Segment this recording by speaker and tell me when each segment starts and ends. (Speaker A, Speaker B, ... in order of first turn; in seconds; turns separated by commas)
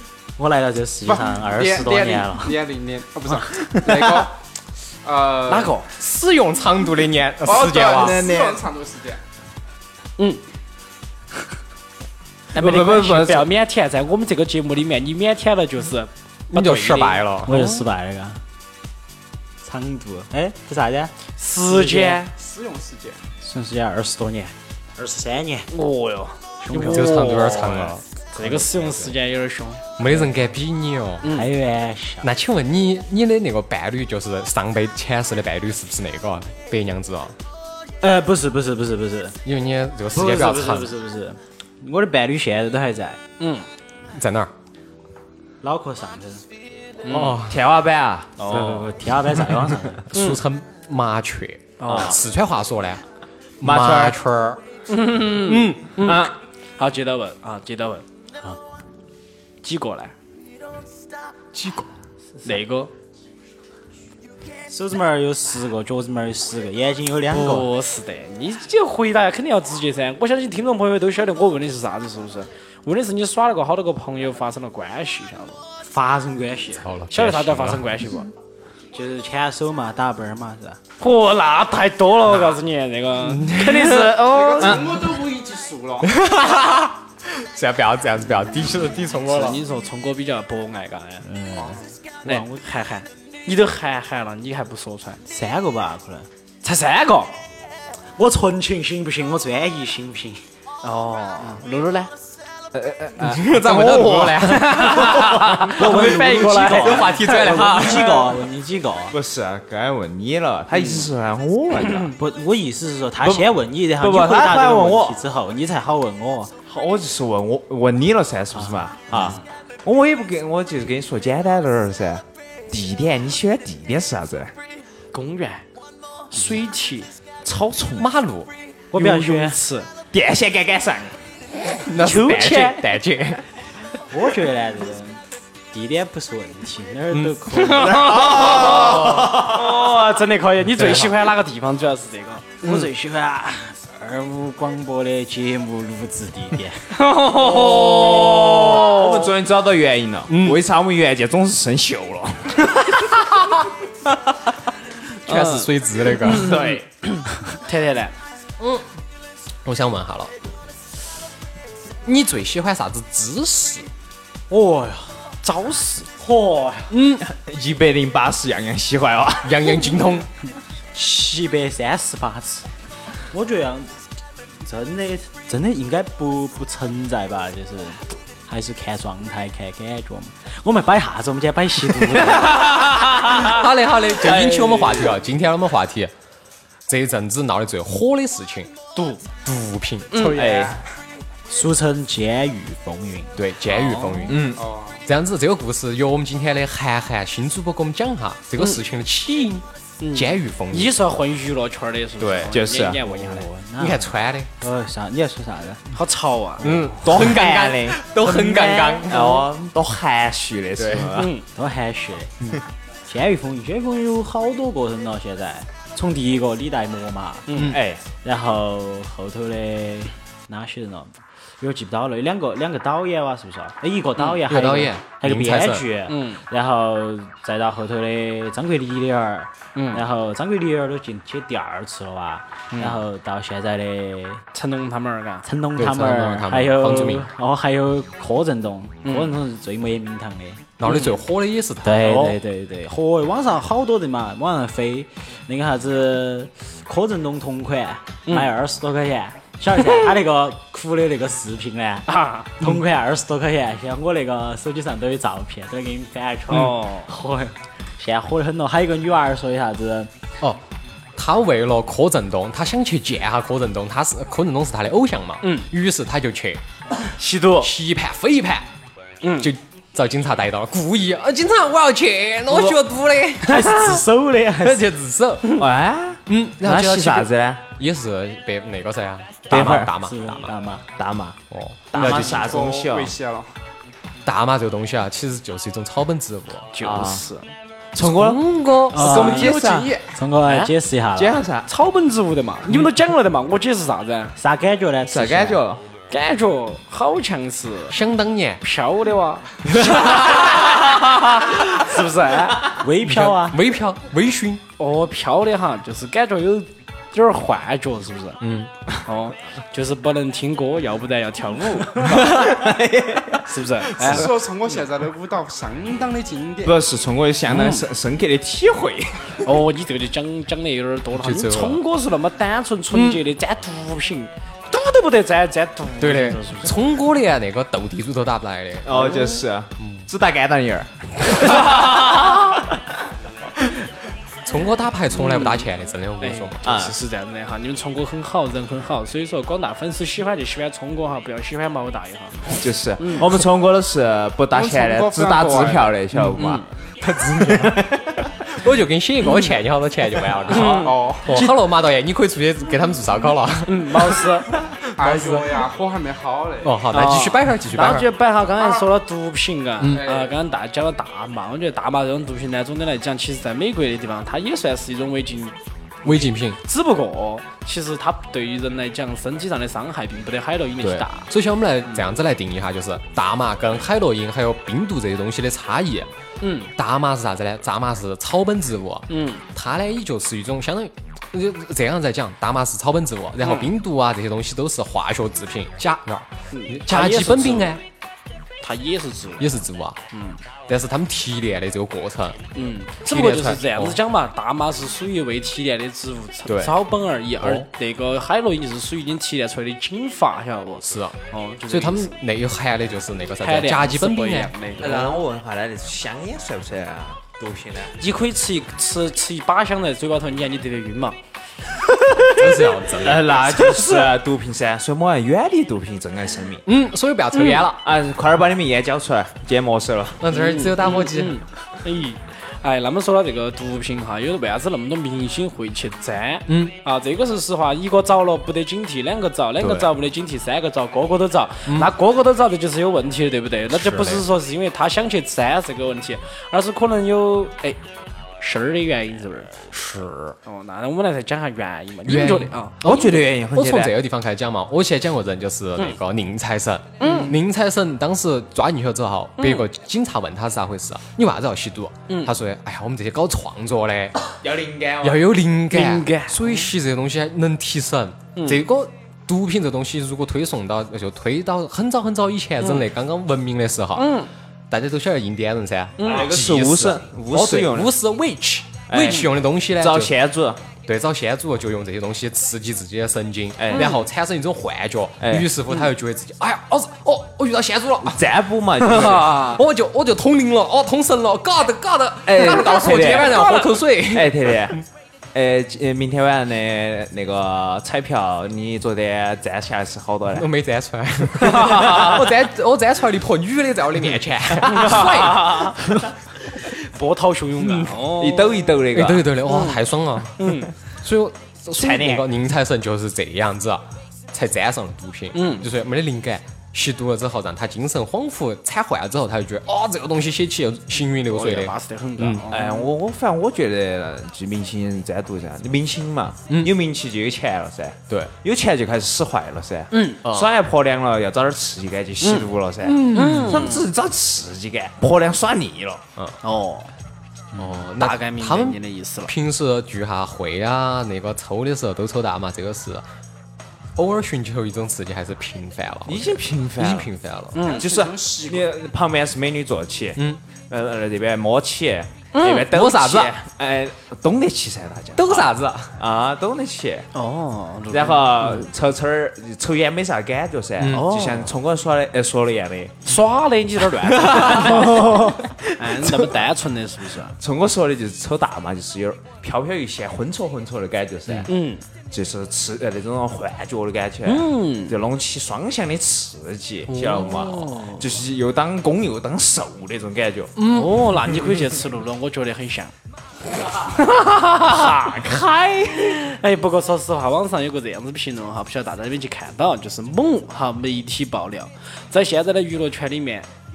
Speaker A: 0.4-2.6, Speaker B: 1.1-4.3, Speaker C: 3.8-4.1, Speaker B: 5.0-5.8, Speaker D: 5.5-5.9, Speaker E: 5.9-8.2, Speaker B: 7.4-9.2, Speaker C: 7.5-8.6, Speaker C: 12.5-13.5, Speaker D: 12.5-17.8, Speaker E: 16.5-17.5, Speaker A: 17.4-18.4, Speaker A: 19.6-21.1, Speaker D: 21.4-22.3, Speaker A: 21.7-22.1, Speaker B: 22.1-23.2, Speaker A: 23.4-25.7, Speaker D: 25.7-29.9, Speaker A: 26.6-27.4, Speaker E: 26.8-29.1, Speaker E: 30.0-31.3, Speaker A: 31.3-32.3, Speaker E: 32.2-37.4, Speaker A: 38.0-39.4, Speaker E: 39.4-40.9, Speaker A: 40.1-43.2, Speaker D: 43.4-43.6, Speaker E: 44.1-44.5, Speaker A: 45.6-46.4, Speaker D: 47.0-47.4, Speaker E: 47.1-47.6, Speaker C: 47.5-48.7, Speaker D: 48.4-48.8, Speaker A: 48.4-50.1, Speaker E: 50.1-53.0, Speaker D: 50.1-50.4, Speaker D: 51.8-52.2, Speaker E: 53.6-54.6, Speaker C: 53.6-54.2, Speaker D: 54.9-58.0, Speaker E: 55.4-55.9, Speaker C: 56.0-56.3, Speaker D: 59.6-60.1, Speaker E: 61.5-61.9, Speaker D: 62.4-62.9, Speaker A: 64.7-67.7, Speaker D: 67.3-75.6, Speaker A: 75.8-76.9, Speaker E: 76.8-77.9, Speaker D: 77.1-78.3, Speaker A: 78.9-80.8, Speaker D: 81.0-84.9, Speaker E: 83.2-84.2, Speaker B: 84.2-86.1, Speaker E: 86.0-89.6, Speaker D: 89.2-91.3, Speaker A: 91.2-92.6, Speaker B: 91.5-91.9, Speaker D: 92.2-95.2, Speaker A: 95.3-96.3, Speaker D: 96.6-97.3, Speaker A: 98.2-100.4, Speaker D: 100.8-102.1, Speaker C: 102.7-105.7, Speaker E: 103.2-108.3, Speaker D: 104.4-107.6, Speaker A: 105.7-109.1, Speaker C: 109.1-112.2, Speaker D: 110.8-111.1, Speaker A: 112.1-116.5, Speaker C: 113.2-115.2, Speaker C: 116.7-124.5, Speaker D: 125.1-125.7, Speaker D: 126.3-127.1, Speaker C: 127.4-128.1, Speaker E: 128.0-128.5, Speaker A: 128.9-129.6, Speaker D: 128.9-129.9, Speaker C: 130.1-131.2, Speaker E: 131.8-133.4, Speaker D: 131.9-132.8, Speaker A: 134.1-138.4, Speaker D: 137.5-142.8, Speaker C: 137.8-139.7, Speaker E: 138.7-139.3, Speaker E: 140.8-141.1, Speaker A: 142.6-147.1, Speaker D: 146.9-149.3, Speaker C: 147.4-153.2, Speaker E: 150.3-150.6, Speaker E: 155.2-156.6, Speaker D: 155.3-158.1, Speaker C: 156.3-156.8, Speaker E: 158.6-158.8, Speaker E: 159.6-160.3, Speaker E: 162.1-163.9, Speaker A: 164.5-165.2, Speaker D: 165.4-166.1, Speaker A: 166.2-166.9, Speaker E: 166.9-167.2, Speaker C: 167.2-169.6, Speaker E: 169.4-170.3, Speaker A: 170.9-172.7, Speaker A: 173.3-173.9, Speaker A: 174.6-182.8, Speaker D: 182.4-183.6, Speaker E: 183.0-186.1, Speaker C: 184.2-185.1, Speaker E: 186.9-188.7, Speaker D: 188.9-189.2, Speaker E: 189.4-190.4, Speaker D: 190.1-190.8, Speaker C: 190.3-190.8, Speaker A: 191.5-193.4, Speaker E: 193.4-194.5, Speaker D: 193.7-194.3, Speaker C: 194.3-194.6, Speaker B: 194.5-195.1, Speaker E: 195.1-201.0, Speaker D: 200.0-203.5, Speaker E: 202.2-202.6, Speaker C: 202.5-203.1, Speaker A: 203.1-205.9, Speaker E: 203.8-204.5, Speaker D: 205.9-207.0, Speaker E: 206.6-209.4, Speaker C: 207.0-211.3, Speaker D: 208.6-209.4, Speaker E: 210.8-211.1, Speaker D: 211.1-211.4, Speaker A: 211.5-212.5, Speaker A: 213.1-217.6, Speaker D: 217.5-217.8, Speaker C: 217.7-218.0, Speaker A: 218.2-234.4, Speaker E: 224.4-225.9, Speaker D: 226.1-226.4, Speaker D: 229.8-230.1, Speaker D: 232.7-233.0, Speaker D: 234.5-235.5, Speaker A: 235.4-240.7, Speaker E: 235.8-237.3, Speaker D: 239.1-239.3, Speaker E: 240.8-242.3, Speaker D: 240.9-241.2, Speaker A: 241.8-260.1, Speaker D: 252.1-252.7, Speaker D: 256.5-257.1, Speaker E: 261.1-266.6, Speaker D: 265.4-265.7, Speaker D: 267.2-267.7, Speaker E: 267.6-268.7, Speaker D: 269.2-269.5, Speaker E: 269.4-274.0, Speaker C: 272.5-272.8, Speaker A: 273.4-274.9, Speaker E: 274.6-275.6, Speaker C: 275.6-277.6, Speaker E: 276.3-280.5, Speaker C: 279.5-279.9, Speaker A: 279.5-280.9, Speaker C: 281.0-281.4, Speaker E: 281.5-282.5, Speaker C: 281.9-283.1, Speaker B: 282.0-283.5, Speaker E: 284.2-286.7, Speaker D: 286.7-287.5, Speaker C: 286.8-287.2, Speaker C: 287.9-289.9, Speaker E: 288.0-289.1, Speaker A: 288.9-291.4, Speaker B: 289.0-290.2, Speaker D: 290.4-290.7, Speaker C: 291.1-291.7, Speaker D: 291.6-294.4, Speaker A: 294.4-295.6, Speaker C: 295.1-295.8, Speaker D: 296.1-298.0, Speaker E: 297.9-298.6, Speaker D: 298.6-300.4, Speaker E: 299.8-300.8, Speaker C: 299.8-300.6, Speaker D: 300.9-302.6, Speaker A: 302.6-303.6, Speaker E: 303.0-304.6, Speaker D: 304.8-308.4, Speaker E: 308.4-308.7, Speaker D: 309.0-312.5, Speaker C: 312.0-313.6, Speaker D: 313.5-314.3, Speaker B: 314.0-316.8, Speaker C: 316.6-319.5, Speaker D: 317.5-317.9, Speaker D: 319.4-326.8, Speaker E: 321.1-321.8, Speaker E: 322.9-323.2, Speaker E: 326.0-329.2, Speaker C: 328.8-332.8, Speaker D: 328.9-329.4, Speaker E: 329.8-330.1, Speaker E: 334.4-336.6, Speaker D: 335.1-335.7, Speaker D: 336.2-343.2, Speaker C: 336.6-336.9, Speaker C: 342.5-348.4, Speaker B: 344.5-345.9, Speaker D: 346.3-346.7, Speaker E: 347.4-347.8, Speaker E: 348.5-354.4, Speaker C: 350.5-350.8, Speaker D: 350.5-351.5, Speaker B: 350.7-351.4, Speaker D: 353.6-354.5, Speaker B: 355.0-357.1, Speaker E: 355.0-355.4, Speaker E: 356.6-358.1, Speaker D: 356.9-371.3, Speaker B: 358.6-358.9, Speaker B: 359.9-360.3, Speaker E: 366.0-366.6, Speaker E: 370.8-376.1, Speaker D: 376.4-376.7, Speaker E: 376.8-387.8, Speaker D: 379.1-379.4, Speaker D: 383.4-383.7, Speaker D: 386.5-387.8, Speaker D: 388.6-389.5, Speaker E: 389.4-390.0, Speaker D: 390.1-390.4, Speaker E: 390.7-392.4, Speaker D: 392.5-402.2, Speaker E: 393.0-394.0, Speaker E: 396.5-396.8, Speaker E: 397.4-397.7, Speaker E: 400.8-405.1, Speaker D: 403.4-405.2, Speaker C: 404.8-407.9, Speaker D: 408.0-411.2, Speaker C: 411.9-416.6, Speaker E: 412.4-413.8, Speaker D: 413.4-414.1, Speaker E: 416.6-417.8, Speaker D: 417.3-417.6, Speaker C: 417.8-420.2, Speaker E: 420.2-421.4, Speaker D: 420.3-437.8, Speaker E: 426.5-426.7, Speaker E: 429.6-429.9, Speaker E: 431.6-431.9, Speaker E: 433.7-434.2, Speaker D: 438.4-439.6, Speaker E: 439.7-440.4, Speaker D: 440.4-443.1, Speaker E: 442.1-454.1, Speaker C: 442.8-443.9, Speaker D: 447.0-447.4, Speaker D: 449.4-449.7, Speaker D: 452.1-452.3, Speaker C: 454.4-455.3, Speaker E: 455.0-470.1, Speaker D: 455.7-456.7, Speaker D: 458.4-458.6, Speaker D: 463.9-464.3, Speaker D: 466.0-466.3, Speaker C: 466.0-467.9, Speaker C: 468.9-470.6, Speaker E: 470.9-478.3, Speaker C: 473.6-473.9, Speaker D: 473.7-474.0, Speaker C: 475.2-475.5, Speaker C: 478.0-479.4, Speaker D: 478.8-479.6, Speaker E: 478.9-484.8, Speaker C: 482.2-490.5, Speaker E: 490.3-495.7, Speaker C: 491.4-492.2, Speaker D: 494.6-495.8, Speaker C: 495.8-496.1, Speaker D: 496.5-498.8, Speaker E: 497.6-497.9, Speaker C: 498.1-499.3, Speaker E: 498.9-500.5, Speaker D: 499.4-499.9, Speaker D: 500.4-500.7, Speaker E: 501.0-512.4, Speaker C: 501.8-502.2, Speaker D: 505.3-505.7, Speaker D: 511.3-512.9, Speaker C: 512.5-526.0, Speaker E: 516.5-516.7, Speaker D: 519.9-520.2, Speaker E: 520.2-520.5, Speaker D: 522.2-522.5, Speaker E: 522.8-523.7, Speaker D: 523.1-523.9, Speaker D: 526.4-526.9, Speaker E: 527.5-533.0, Speaker D: 527.9-529.3, Speaker E: 534.0-537.6, Speaker C: 536.0-537.1, Speaker D: 537.5-537.9, Speaker B: 537.5-538.8, Speaker C: 537.6-547.1, Speaker D: 542.3-543.4, Speaker E: 542.7-543.4, Speaker E: 545.1-546.0, Speaker D: 547.1-548.7, Speaker C: 547.9-553.2, Speaker E: 550.8-551.1, Speaker D: 550.9-551.5, Speaker D: 553.0-557.4, Speaker C: 553.9-556.2, Speaker C: 557.4-561.5, Speaker D: 561.5-561.8, Speaker C: 562.1-570.5, Speaker D: 564.2-564.9, Speaker D: 566.9-568.1, Speaker E: 570.6-571.1, Speaker D: 570.6-572.9, Speaker D: 573.8-575.3, Speaker C: 574.7-576.2, Speaker D: 575.9-583.5